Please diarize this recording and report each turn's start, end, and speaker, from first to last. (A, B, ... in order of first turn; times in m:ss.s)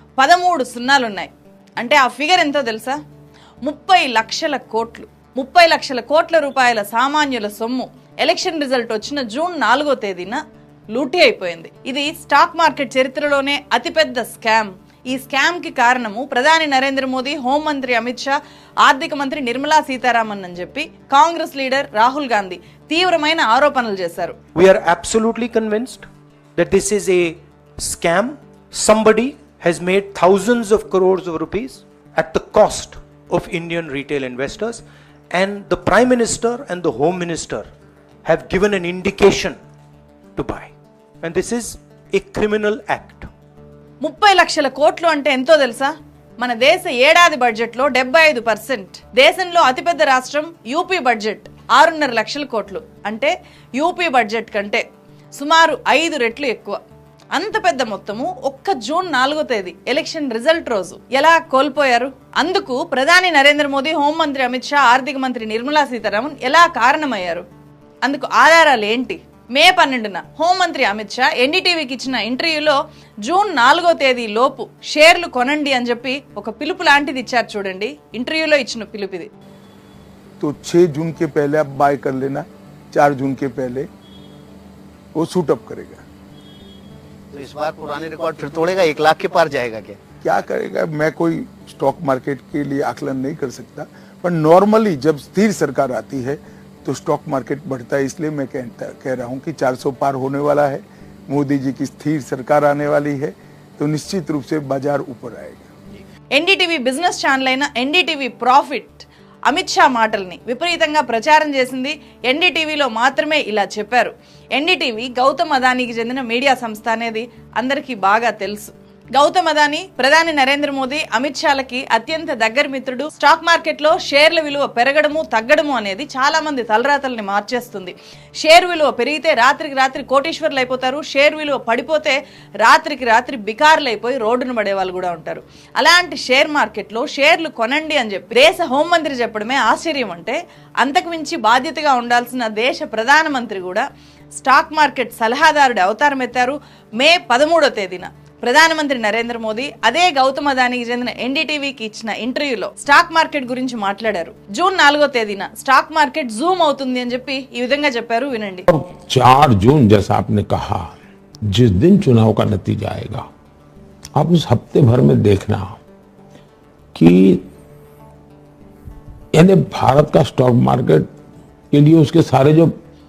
0:00.2-0:01.3 A
0:01.8-0:03.0 A
0:03.6-0:10.4 A
0:11.0-0:24.4 A
0:24.6-0:37.7 B
0:38.2-0:39.6 B
0:40.4-0:40.7 B
0:41.2-0:43.3 B
0:44.0-0:54.8 A
0:55.4-0:56.8 A
0:57.4-1:07.4 A
1:08.0-1:19.3 A
1:20.4-1:23.9 C
1:25.2-1:26.0 C
1:27.3-1:30.0 D
1:30.2-1:45.7 C
1:46.3-2:23.9 A
2:24.4-2:38.7 A
2:38.7-2:41.0 E
2:41.5-2:43.3 E
2:44.2-2:45.8 E
2:47.0-2:47.4 E
2:49.3-2:51.1 E
2:51.7-2:52.8 E